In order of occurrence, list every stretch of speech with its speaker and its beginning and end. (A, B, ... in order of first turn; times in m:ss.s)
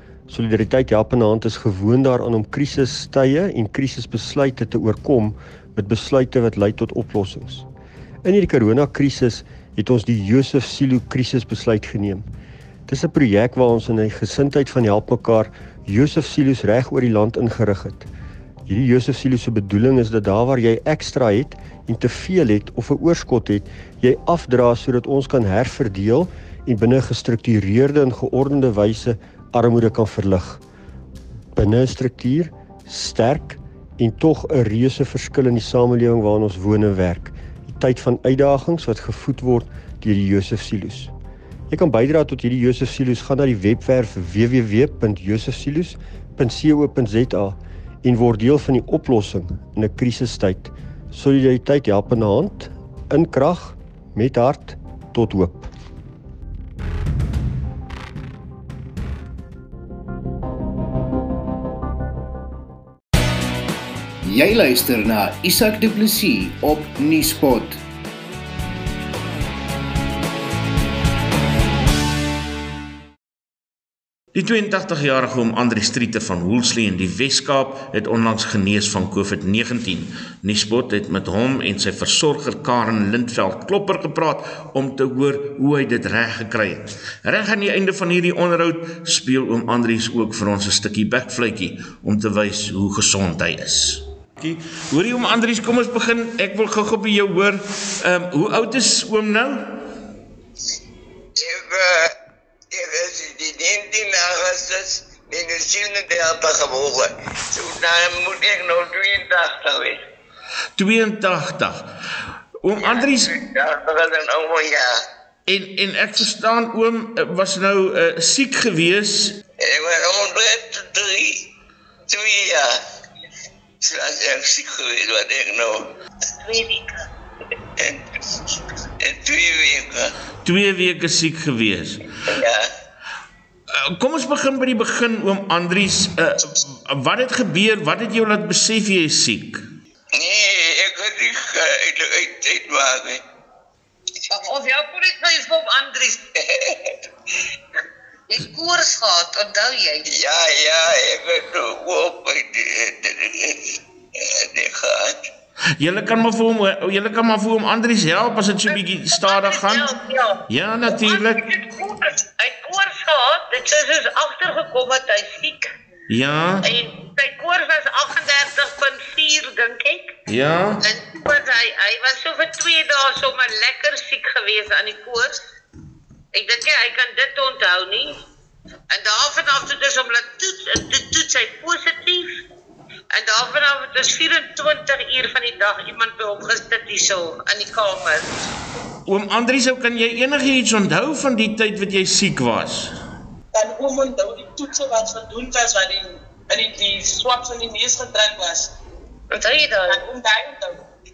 0:00.3-0:07.6 A
0:08.2-0:12.3 A
0:12.9-0:18.1 A
0:18.7-0:30.6 A
0:31.6-0:41.1 A
0:41.7-0:55.7 A
1:04.2-1:07.8 B
1:14.3-1:39.7 C
1:41.4-1:42.1 D
1:42.7-1:50.0 D
1:50.8-1:51.8 C
1:52.6-1:53.3 C
1:52.8-1:54.9 D
1:55.5-1:59.4 C
1:59.6-2:01.4 D
2:02.1-2:02.7 D
2:03.8-2:05.9 D
2:06.4-2:07.0 E
2:09.0-2:10.1 D
2:10.4-2:12.0 C
2:12.3-2:12.6 D
2:13.8-2:19.6 C
2:20.1-2:23.2 D
2:24.3-2:26.2 E
2:26.5-2:26.9 D
2:28.3-2:30.1 E
2:30.0-2:35.2 D
2:35.8-2:39.9 C
2:38.7-2:45.7 E
2:40.5-2:41.4 C
2:46.1-2:46.6 C
2:46.6-2:50.1 E
2:50.3-2:50.8 C
2:50.8-2:55.4 E
2:56.3-2:58.2 E
2:58.9-3:02.3 E
3:03.1-3:08.3 E
3:09.1-3:12.9 C
3:13.5-3:18.7 F
3:19.3-3:20.0 E
3:19.9-3:20.8 F